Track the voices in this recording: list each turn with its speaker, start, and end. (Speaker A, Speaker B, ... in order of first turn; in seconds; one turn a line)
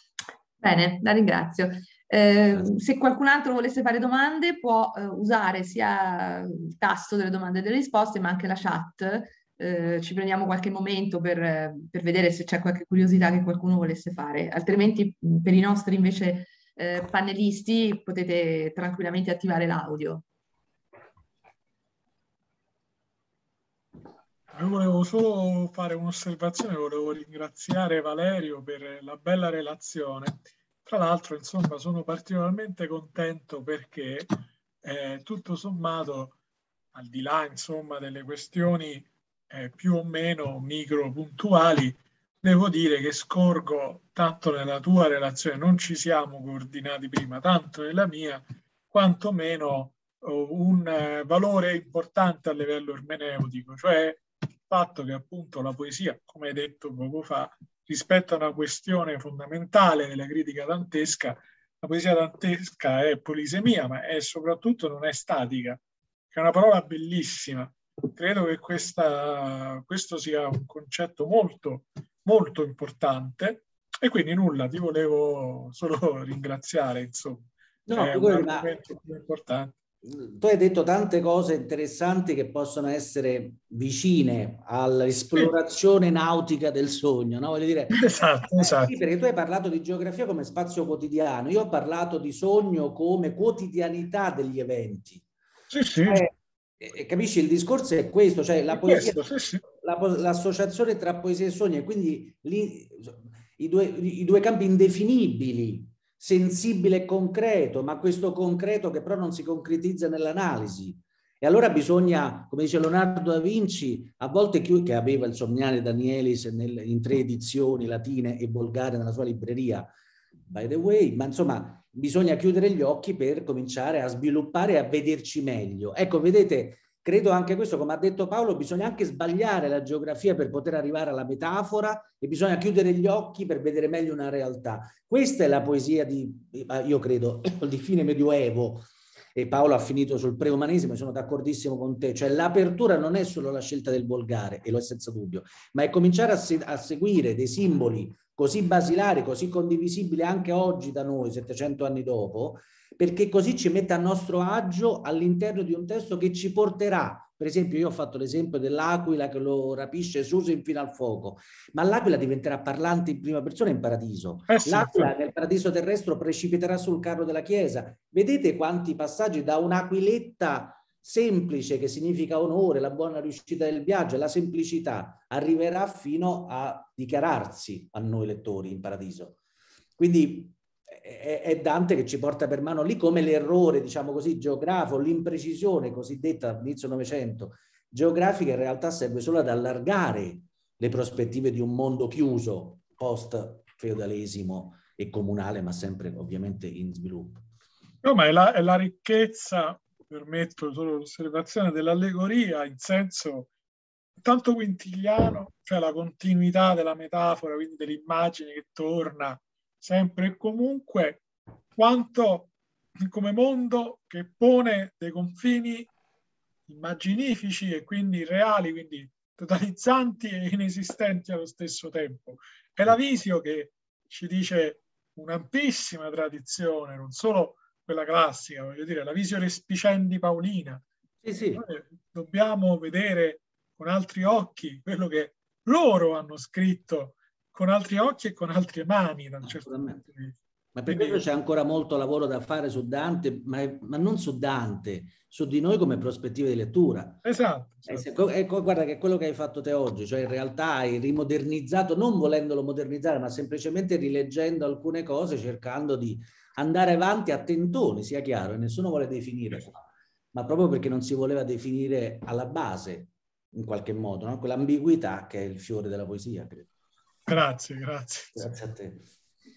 Speaker A: 0.6-20.3
Speaker B: 24.5-34.3
Speaker B: 34.8-36.4
Speaker B: 36.9-65.8
Speaker B: 66.3-79.8
Speaker C: 77.9-78.8
Speaker C: 80.0-95.2
Speaker B: 87.9-89.0
Speaker B: 95.7-96.2
Speaker C: 96.0-119.9
Speaker B: 98.7-99.6
Speaker C: 120.5-179.4
Speaker B: 164.5-165.1
Speaker C: 180.0-197.4
Speaker B: 198.0-203.5
Speaker B: 204.2-211.2
Speaker B: 211.8-215.9
Speaker B: 216.7-230.8
Speaker C: 231.2-231.7
Speaker B: 231.5-240.4
Speaker C: 239.4-240.1
Speaker C: 240.7-247.2
Speaker B: 240.9-241.2
Speaker B: 247.2-248.1
Speaker C: 247.9-266.7
Speaker B: 267.3-268.5
Speaker C: 268.4-269.1